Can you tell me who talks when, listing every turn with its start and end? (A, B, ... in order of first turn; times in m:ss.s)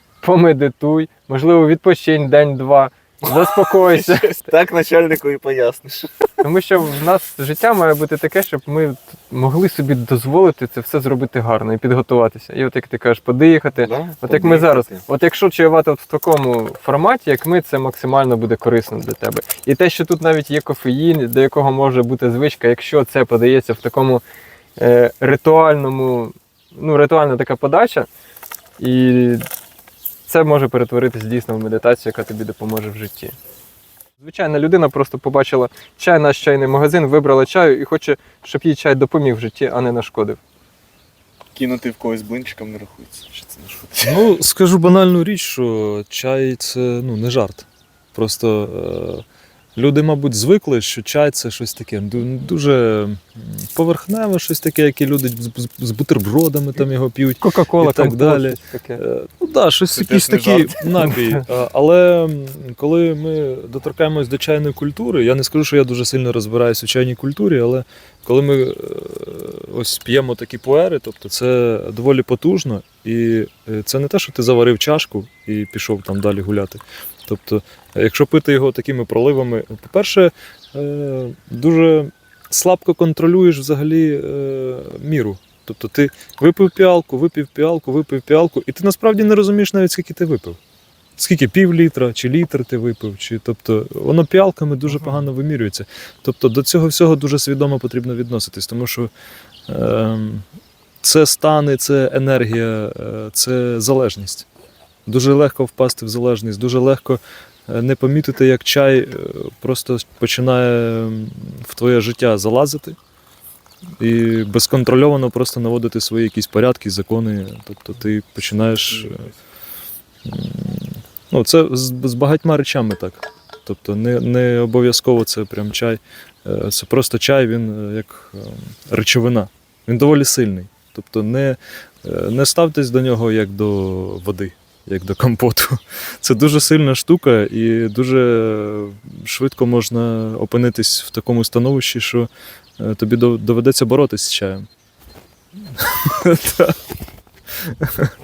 0:00.2-0:04.4 A
0:03.8-0:06.2 B
0:06.4-0:24.2 A
0:13.8-0:15.0 B
0:24.8-0:28.1 A
0:28.8-0:29.4 A
0:30.3-0:33.4 A
0:34.2-0:40.4 A
0:41.5-0:44.2 B
0:44.0-0:49.2 C
0:49.8-1:30.6 C
0:57.4-0:59.0 A
0:59.9-1:01.2 B
1:31.2-1:39.1 C
1:39.7-1:40.4 C
1:41.0-1:44.5 C
1:45.0-1:53.0 C
1:54.0-1:59.3 C
1:58.9-1:59.3 B
2:00.2-2:24.6 C
2:25.6-2:26.8 C
2:27.5-2:28.1 C